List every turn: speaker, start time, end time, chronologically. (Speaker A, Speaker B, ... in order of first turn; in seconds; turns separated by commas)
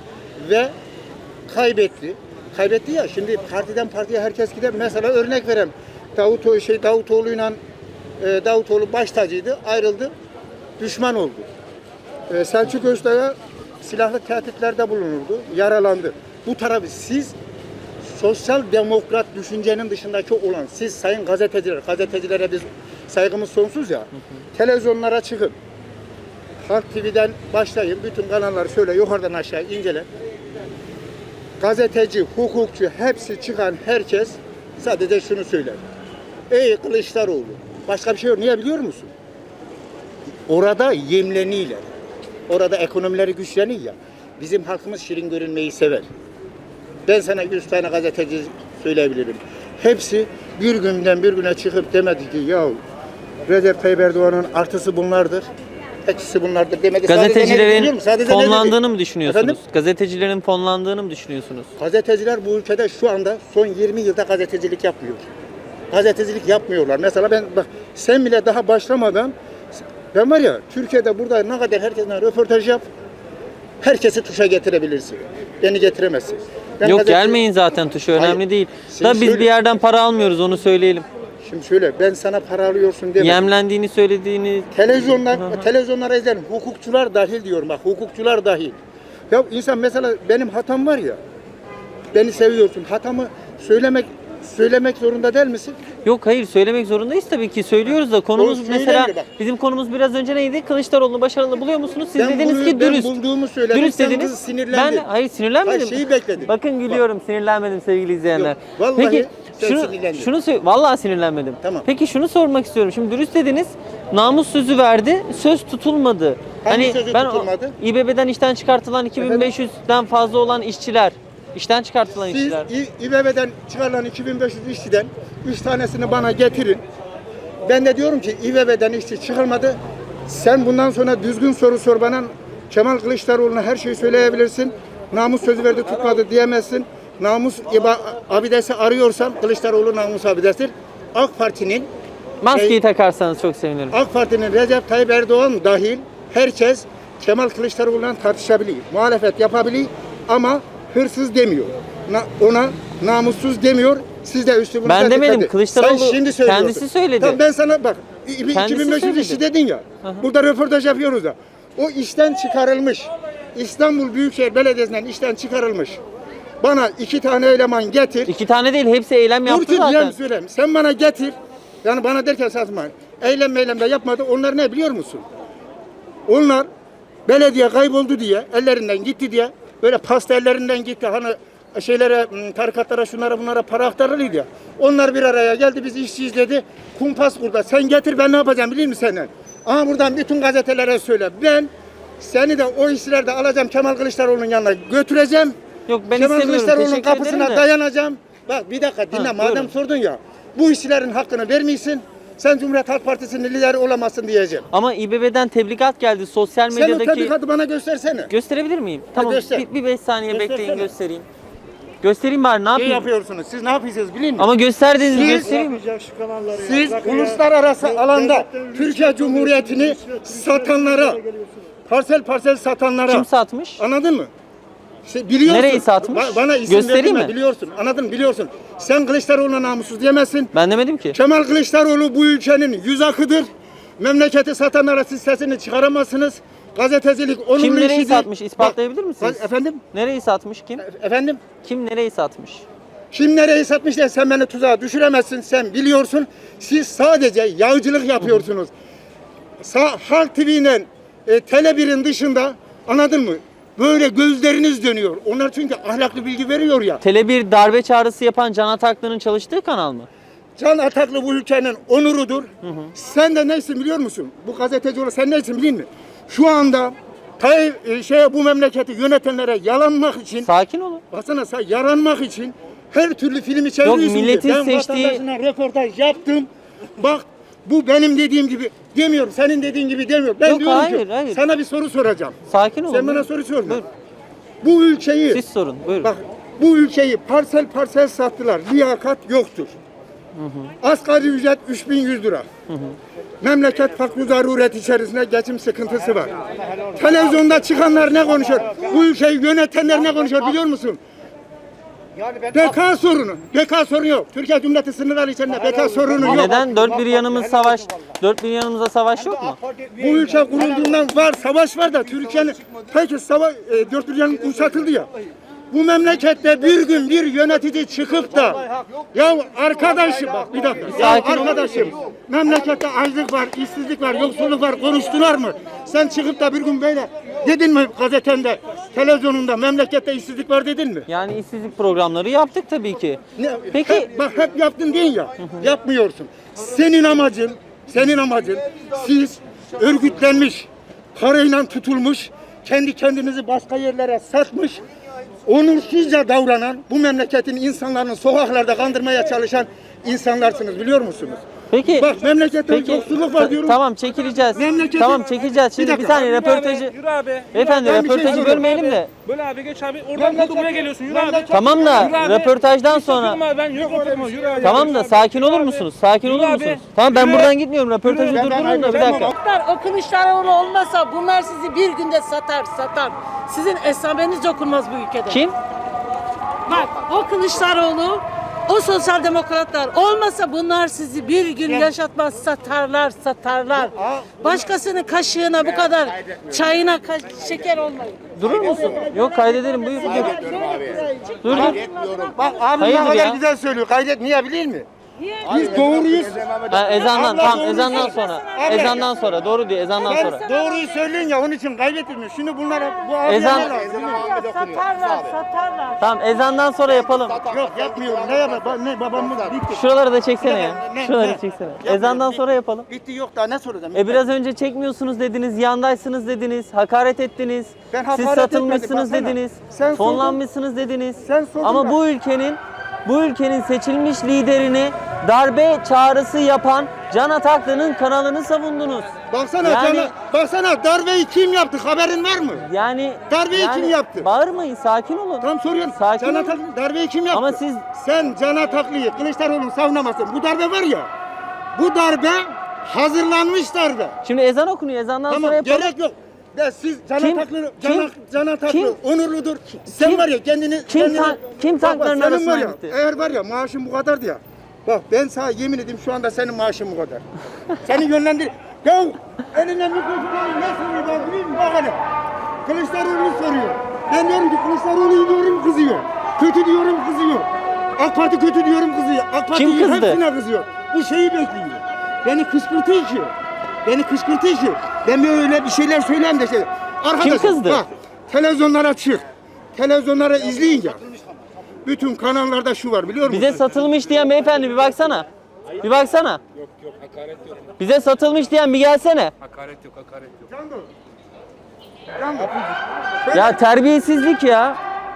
Speaker A: 0.4-0.7, Speaker A: 1.5-7.6, Speaker A: 8.2-10.1, Speaker A: 10.8-11.5, Speaker A: 12.3-17.3, Speaker A: 18.0-25.6, Speaker A: 26.6-30.1, Speaker A: 31.6-35.8, Speaker A: 36.5-39.1, Speaker A: 40.5-41.8, Speaker A: 42.5-46.1, Speaker A: 47.1-52.8, Speaker A: 53.5-55.5, Speaker A: 56.0-59.6, Speaker B: 57.1-61.7, Speaker A: 61.8-65.2, Speaker A: 65.9-69.3, Speaker A: 70.1-72.8, Speaker A: 73.8-77.4, Speaker B: 76.8-81.1, Speaker A: 78.2-79.5, Speaker A: 81.4-83.5, Speaker B: 83.2-85.7, Speaker A: 84.7-88.8, Speaker A: 89.3-91.2, Speaker A: 92.1-95.8, Speaker B: 96.0-103.1, Speaker A: 98.4-99.3, Speaker A: 102.2-105.0, Speaker B: 103.7-122.7, Speaker A: 105.6-107.0, Speaker A: 108.4-110.3, Speaker A: 111.6-111.9, Speaker A: 116.6-117.8, Speaker A: 119.2-119.5, Speaker A: 122.2-126.8, Speaker A: 127.6-141.9, Speaker B: 142.4-143.9, Speaker A: 142.5-142.8, Speaker A: 143.9-166.0, Speaker B: 154.8-157.4, Speaker B: 158.5-159.4, Speaker A: 166.6-168.3, Speaker B: 168.3-170.2, Speaker A: 169.4-175.2, Speaker A: 176.3-176.7, Speaker A: 177.3-195.6, Speaker B: 195.9-197.6, Speaker A: 196.1-204.7, Speaker B: 199.1-199.7, Speaker B: 204.7-207.3, Speaker A: 206.7-208.3, Speaker B: 208.3-211.3, Speaker A: 209.1-209.7, Speaker A: 210.3-210.9, Speaker B: 212.0-213.1, Speaker A: 212.7-214.5, Speaker B: 214.4-215.7, Speaker A: 215.0-215.6, Speaker C: 215.8-216.5, Speaker A: 216.5-221.2, Speaker A: 221.9-223.3, Speaker B: 223.1-223.8, Speaker A: 223.8-224.3, Speaker A: 225.1-230.5, Speaker B: 225.4-227.3, Speaker B: 230.5-231.2, Speaker A: 231.1-233.5, Speaker A: 234.0-239.8, Speaker B: 237.6-240.8, Speaker A: 240.8-241.4, Speaker B: 241.6-242.6, Speaker A: 243.1-248.7, Speaker A: 249.6-257.0, Speaker B: 257.0-260.1, Speaker A: 260.6-270.5, Speaker B: 262.6-262.9, Speaker B: 270.4-271.0, Speaker A: 271.1-282.4, Speaker B: 273.8-275.2, Speaker B: 280.4-281.4, Speaker B: 282.5-283.9, Speaker A: 282.9-283.8, Speaker A: 284.6-285.4, Speaker B: 285.3-286.1, Speaker A: 286.0-289.7, Speaker B: 290.4-290.7, Speaker A: 290.8-292.4, Speaker B: 292.7-293.0, Speaker A: 293.4-296.4, Speaker A: 296.9-301.0, Speaker A: 302.5-306.6, Speaker B: 306.2-309.6, Speaker A: 309.9-315.1, Speaker A: 315.7-318.6, Speaker A: 319.1-331.1, Speaker B: 320.9-321.9, Speaker B: 331.1-333.2, Speaker A: 333.4-344.8, Speaker B: 333.7-334.1, Speaker A: 345.4-353.8, Speaker B: 351.7-352.1, Speaker B: 352.7-356.9, Speaker A: 354.5-356.3, Speaker C: 356.2-366.8, Speaker B: 357.5-359.1, Speaker A: 357.8-358.7, Speaker A: 360.1-362.2, Speaker B: 361.5-363.4, Speaker B: 364.6-369.3, Speaker A: 367.1-367.5, Speaker A: 368.1-369.3, Speaker D: 369.2-375.4, Speaker B: 375.3-375.6, Speaker D: 376.7-392.6, Speaker A: 381.7-381.9, Speaker A: 383.8-384.5, Speaker B: 388.4-390.5, Speaker B: 391.4-391.8, Speaker A: 391.5-394.9, Speaker B: 392.8-393.4, Speaker D: 395.2-395.6, Speaker A: 395.4-399.1, Speaker B: 396.7-400.4, Speaker D: 397.7-398.4, Speaker A: 400.0-404.4, Speaker D: 400.2-400.9, Speaker B: 403.2-403.7, Speaker D: 404.1-406.0, Speaker B: 406.0-407.4, Speaker A: 407.4-409.8, Speaker B: 409.7-412.9, Speaker A: 410.4-414.2, Speaker B: 413.9-429.1, Speaker A: 417.9-420.4, Speaker A: 421.2-422.0, Speaker A: 429.3-432.7, Speaker B: 429.6-430.1, Speaker B: 432.6-436.6, Speaker A: 433.3-434.3, Speaker A: 435.4-441.1, Speaker B: 437.3-437.9, Speaker A: 441.7-444.2, Speaker B: 444.2-445.9, Speaker A: 445.3-457.2, Speaker B: 447.2-448.1, Speaker B: 448.7-449.0, Speaker B: 449.9-450.2, Speaker B: 450.9-452.9, Speaker A: 457.8-462.0, Speaker A: 462.6-473.3, Speaker B: 469.5-470.2, Speaker A: 473.8-481.0, Speaker B: 477.2-477.8, Speaker A: 481.8-483.7, Speaker B: 483.2-485.3, Speaker B: 485.8-486.4, Speaker B: 487.8-489.3, Speaker A: 490.3-490.9, Speaker A: 492.2-493.6, Speaker B: 493.3-494.8